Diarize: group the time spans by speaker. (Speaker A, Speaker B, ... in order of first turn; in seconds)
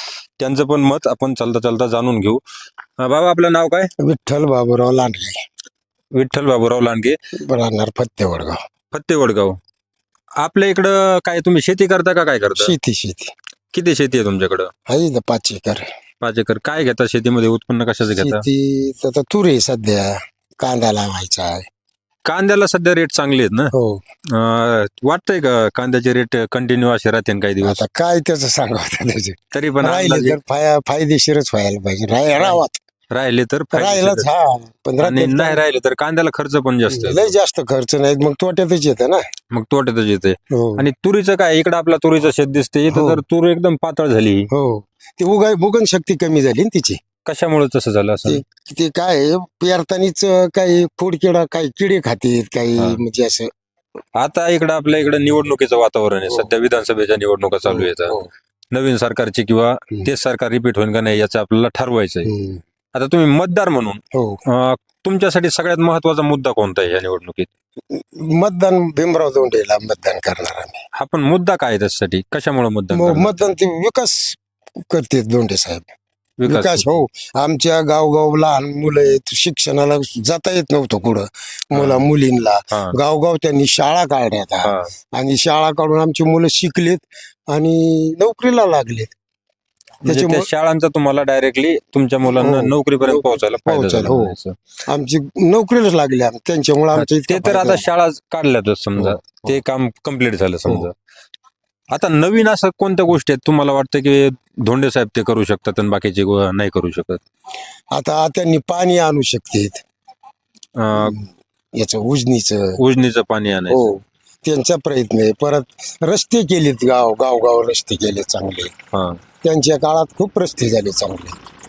Speaker A: 0.4-2.4, 3.0-3.9, 6.1-7.2, 8.9-9.6, 10.4-12.7, 13.7-14.7, 16.2-18.4, 22.3-23.7, 24.3-27.8, 29.5-30.4, 32.4-34.3, 35.0-37.3, 39.5-44.5, 47.2-48.4, 54.2-58.2, 58.7-62.3, 62.9-67.5, 71.0-73.5, 76.4-77.0, 81.7-82.0, 84.6-84.9, 90.0-94.5, 97.0-100.9, 101.9-107.2, 110.8-111.2, 112.8-113.9, 118.9-119.2
Speaker B: 4.0-5.4, 7.4-8.6, 12.6-13.3, 14.9-15.9, 18.1-21.7, 23.7-24.0, 27.6-32.8, 33.7-35.6, 36.9-39.2, 40.5-40.9, 42.9-43.2, 44.5-47.0, 48.3-53.5, 57.6-58.3, 62.2-62.6, 64.1-64.4, 67.9-70.8, 72.9-75.9, 76.5-89.2, 90.0-90.5, 92.3-97.8, 99.0-99.6, 107.9-109.8, 111.0-112.8, 113.7-118.7, 119.4-121.4